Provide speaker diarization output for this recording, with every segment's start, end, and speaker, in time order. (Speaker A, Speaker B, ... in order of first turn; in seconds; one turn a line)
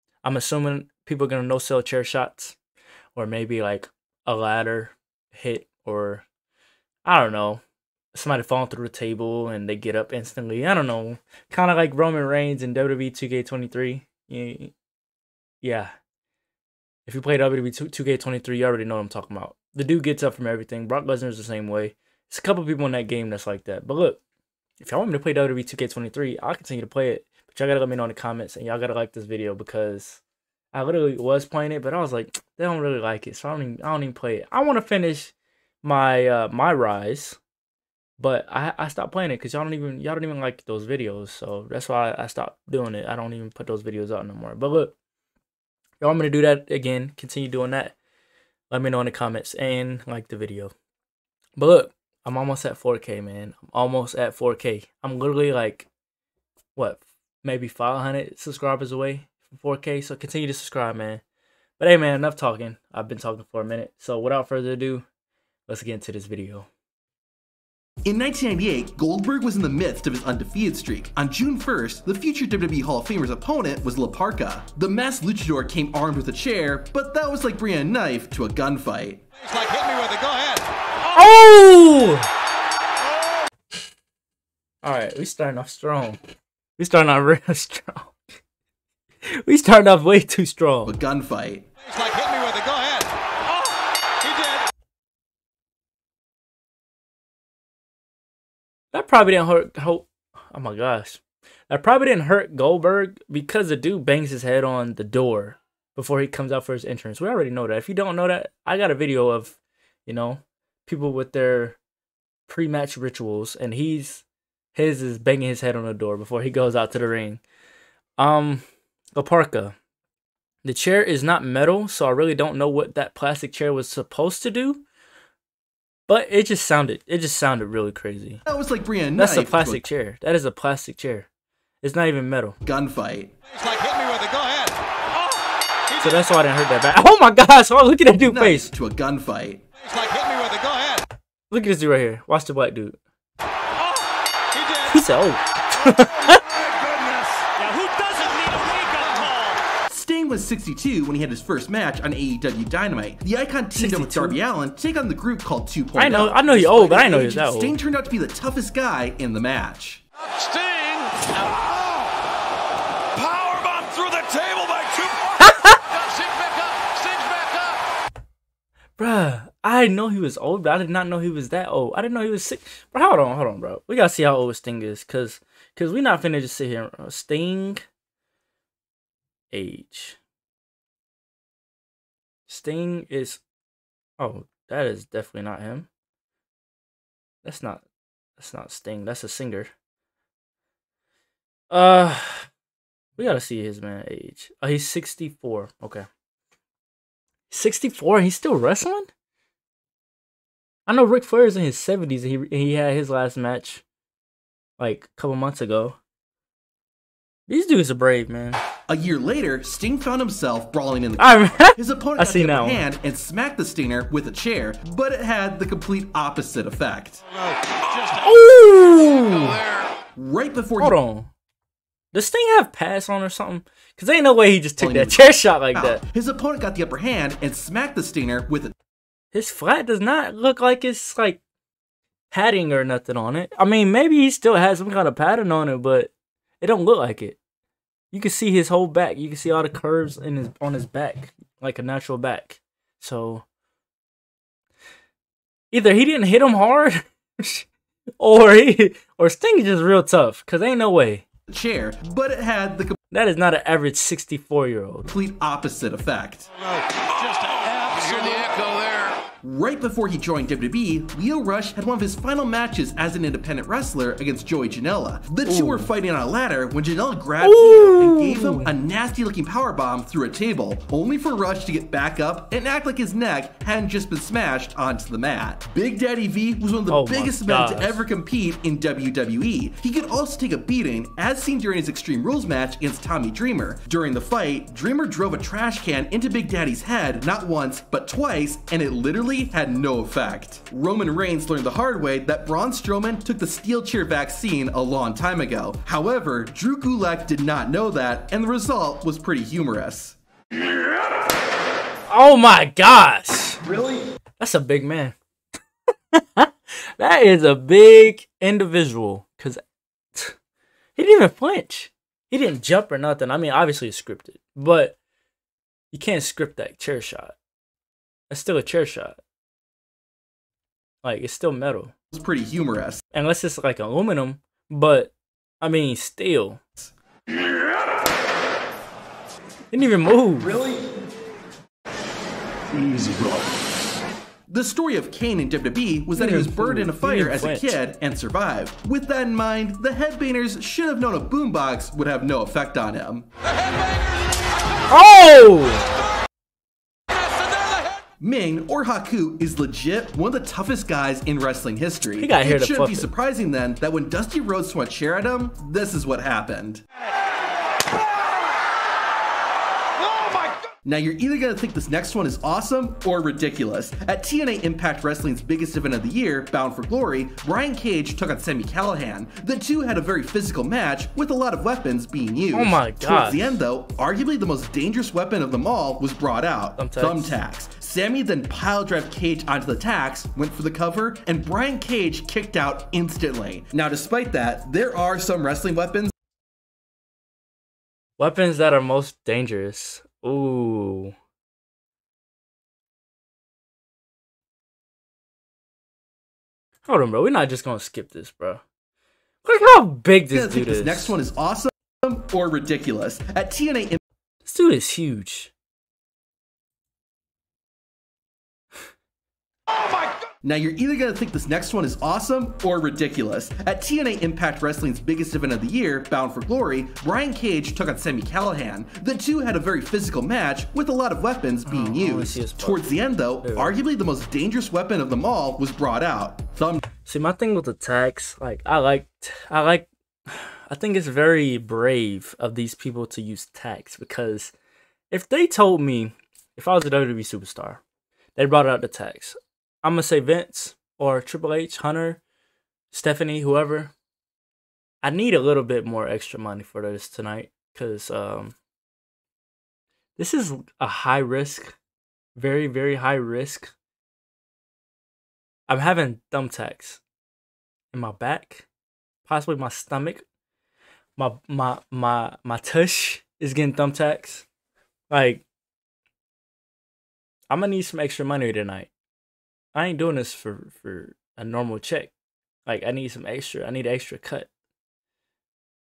Speaker A: 0.2-2.6
Speaker A: 3.1-6.3
Speaker A: 7.0-7.6
Speaker A: 8.1-14.7
Speaker A: 15.6-15.9
Speaker A: 17.1-24.2
Speaker A: 24.8-30.2
Speaker A: 30.7-37.4
Speaker A: 38.2-44.9
Speaker A: 46.0-48.0
Speaker A: 48.7-50.7
Speaker A: 51.6-55.9
Speaker A: 56.8-61.2
Speaker A: 61.8-65.1
Speaker A: 65.7-66.7
Speaker B: 68.0-79.2
Speaker C: 79.4-80.6
Speaker A: 81.1-82.3
Speaker A: 84.8-86.2
Speaker A: 86.8-88.2
Speaker A: 89.4-90.9
Speaker B: 90.8-91.7
Speaker C: 91.9-93.1
Speaker C: 94.2-94.6
Speaker A: 98.9-111.8
Speaker A: 112.5-117.4
Speaker A: 118.2-118.7
Speaker A: 119.2-119.8
Speaker A: 120.6-124.8
Speaker A: 126.1-128.4
Speaker B: 128.5-129.8
Speaker A: 129.2-131.3
Speaker A: 131.8-132.6
Speaker B: 132.6-133.3
Speaker C: 133.5-134.8
Speaker A: 136.0-138.7
Speaker B: 138.2-139.6
Speaker C: 139.8-141.0
Speaker A: 141.5-143.0
Speaker A: 144.8-146.6
Speaker C: 146.3-149.5
Speaker B: 149.9-160.0
Speaker A: 153.7-154.4
Speaker A: 156.0-157.8
Speaker C: 160.3-162.1
Speaker C: 163.1-167.8
Speaker A: 165.4-165.8
Speaker A: 169.0-177.8
Speaker A: 179.5-180.2
Speaker A: 182.5-183.4
Speaker A: 184.2-185.9
Speaker A: 187.4-187.8
Speaker A: 188.4-189.7
Speaker A: 191.7-192.5
Speaker A: 193.2-196.1
Speaker A: 197.5-199.1
Speaker A: 200.9-203.8
Speaker A: 204.8-206.0
Speaker A: 207.5-208.6
Speaker B: 208.9-217.2
Speaker A: 211.2-212.8
Speaker A: 218.1-219.6
Speaker B: 220.2-221.0
Speaker A: 220.8-221.3
Speaker A: 222.1-226.0
Speaker B: 224.8-228.7
Speaker A: 229.3-231.4
Speaker A: 232.3-237.4
Speaker A: 238.1-243.5
Speaker A: 245.7-247.7
Speaker A: 248.2-251.2
Speaker B: 251.5-253.0
Speaker A: 253.1-255.1
Speaker B: 255.1-256.5
Speaker C: 256.9-259.2
Speaker B: 259.4-300.2
Speaker A: 265.4-265.9
Speaker A: 267.4-268.8
Speaker A: 276.9-278.0
Speaker A: 302.1-303.6
Speaker B: 303.7-304.0
Speaker A: 304.4-305.2
Speaker A: 306.1-309.6
Speaker A: 311.0-315.0
Speaker A: 315.9-317.4
Speaker A: 318.3-319.2
Speaker A: 321.0-321.9
Speaker B: 322.1-323.0
Speaker A: 323.1-326.6
Speaker A: 329.7-330.6
Speaker B: 334.5-343.3
Speaker A: 336.1-337.8
Speaker A: 344.9-345.9
Speaker C: 347.5-347.8
Speaker B: 348.2-356.8
Speaker A: 352.2-353.1
Speaker B: 360.9-386.1
Speaker A: 372.5-373.6
Speaker A: 376.8-377.4
Speaker A: 388.2-391.1
Speaker A: 396.9-398.6
Speaker A: 399.4-401.2
Speaker B: 400.3-404.0
Speaker A: 404.4-405.5
Speaker B: 410.4-426.8
Speaker A: 421.7-422.9
Speaker A: 423.4-423.8
Speaker A: 427.0-434.5
Speaker A: 435.1-437.8
Speaker A: 438.4-442.2
Speaker A: 442.9-443.9
Speaker A: 445.0-448.6
Speaker A: 450.2-451.8
Speaker A: 452.4-453.7
Speaker A: 455.7-457.0
Speaker A: 457.9-458.7
Speaker A: 459.2-460.2
Speaker A: 461.2-464.5
Speaker A: 465.1-465.4
Speaker A: 467.5-468.9
Speaker A: 469.7-472.1
Speaker A: 472.7-474.5